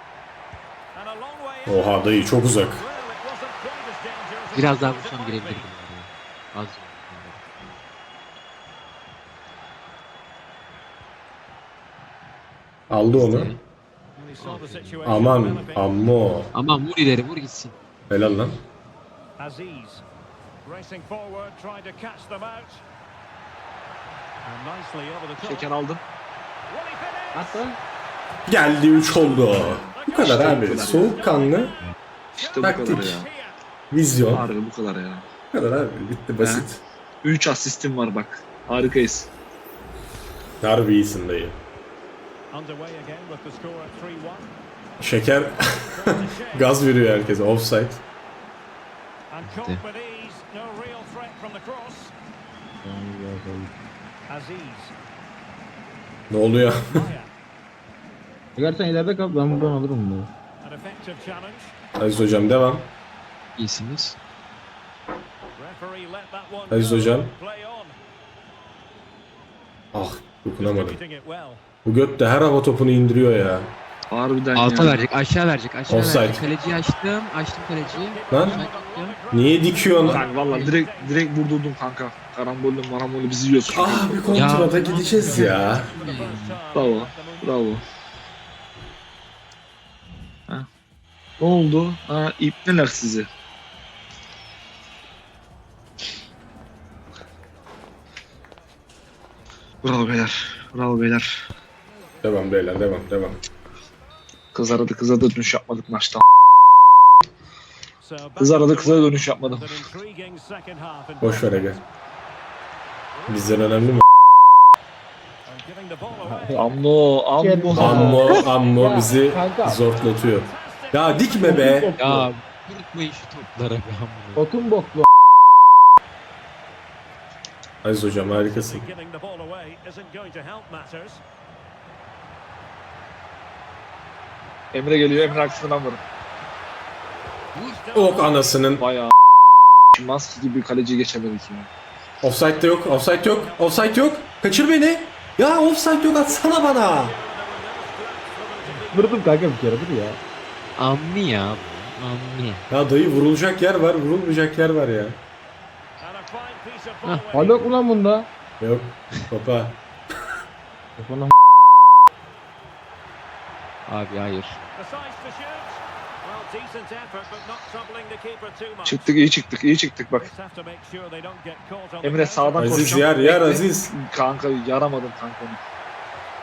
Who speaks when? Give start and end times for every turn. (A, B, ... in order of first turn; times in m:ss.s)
0:01.0-0:05.7 A
0:01.7-0:02.8 B
0:04.5-0:07.4 C
0:12.9-0:13.5 B
0:13.1-0:13.6 C
0:14.2-0:16.1 A
0:14.4-0:15.0 C
0:15.0-0:16.5 B
0:16.5-0:17.7 C
0:18.1-0:18.6 B
0:19.4-0:20.0 A
0:20.6-0:22.8 A
0:24.4-0:25.7 A
0:25.4-0:26.0 D
0:26.7-0:27.7 A
0:27.3-0:27.8 E
0:28.5-0:31.8 B
0:28.9-0:33.6 A
0:29.6-0:31.1 D
0:32.4-0:33.3 D
0:32.6-0:33.2 B
0:33.9-0:34.5 B
0:34.3-0:35.3 D
0:35.5-0:36.8 B
0:36.4-0:36.7 D
0:37.2-0:39.3 D
0:40.6-0:41.6 B
0:42.5-0:44.5 A
0:45.0-0:48.0 B
0:45.8-0:46.7 A
0:49.3-0:52.1 A
0:49.4-0:49.8 C
0:52.8-0:53.7 E
0:54.3-0:54.9 A
0:56.3-0:57.1 B
0:56.9-0:57.3 A
0:58.6-1:00.3 E
1:00.6-1:01.8 A
1:02.0-1:02.9 B
1:03.6-1:04.2 C
1:05.6-1:08.0 A
1:06.7-1:07.3 B
1:09.9-1:11.0 B
1:10.6-1:11.6 A
1:11.8-1:13.7 B
1:14.1-1:15.1 D
1:14.5-1:19.2 C
1:15.9-1:16.4 B
1:16.1-1:21.2 A
1:18.3-1:18.6 B
1:19.3-1:20.2 B
1:20.0-1:20.7 C
1:20.1-1:24.6 D
1:23.7-1:25.9 B
1:24.3-1:26.6 C
1:24.5-1:27.6 A
1:26.7-1:27.8 D
1:31.4-1:33.3 D
1:39.8-1:41.3 D
1:42.2-1:43.4 B
1:44.5-1:46.2 D
1:48.0-1:51.8 A
1:48.4-1:49.8 D
1:51.2-1:51.8 B
1:53.1-1:54.0 A
1:53.3-1:54.0 B
1:55.5-1:56.7 A
1:56.2-1:56.8 E
1:56.6-1:58.1 D
1:57.4-1:59.8 E
1:57.7-2:01.9 B
1:58.1-1:58.5 C
1:58.3-2:01.8 A
2:01.4-2:02.3 E
2:02.0-2:04.4 C
2:04.4-2:05.0 E
2:07.8-2:08.9 B
2:08.3-2:11.2 A
2:14.7-2:16.0 D
2:15.1-2:15.8 A
2:17.5-2:17.9 C
2:17.7-2:18.3 A
2:18.0-2:18.8 B
2:18.8-2:19.1 D
2:19.9-2:21.7 D
2:22.2-2:27.2 B
2:22.6-2:24.2 A
2:26.3-2:29.3 A
2:28.9-2:30.2 E
2:30.8-2:32.7 C
2:32.7-2:35.2 B
2:36.0-2:37.6 A
2:37.3-2:38.3 E
2:38.6-2:39.8 B
2:41.0-2:41.3 E
2:43.9-2:44.6 C
2:44.8-2:49.2 A
2:48.8-2:50.3 D
2:50.2-2:53.0 A
2:52.0-2:55.6 D
2:52.6-2:53.9 B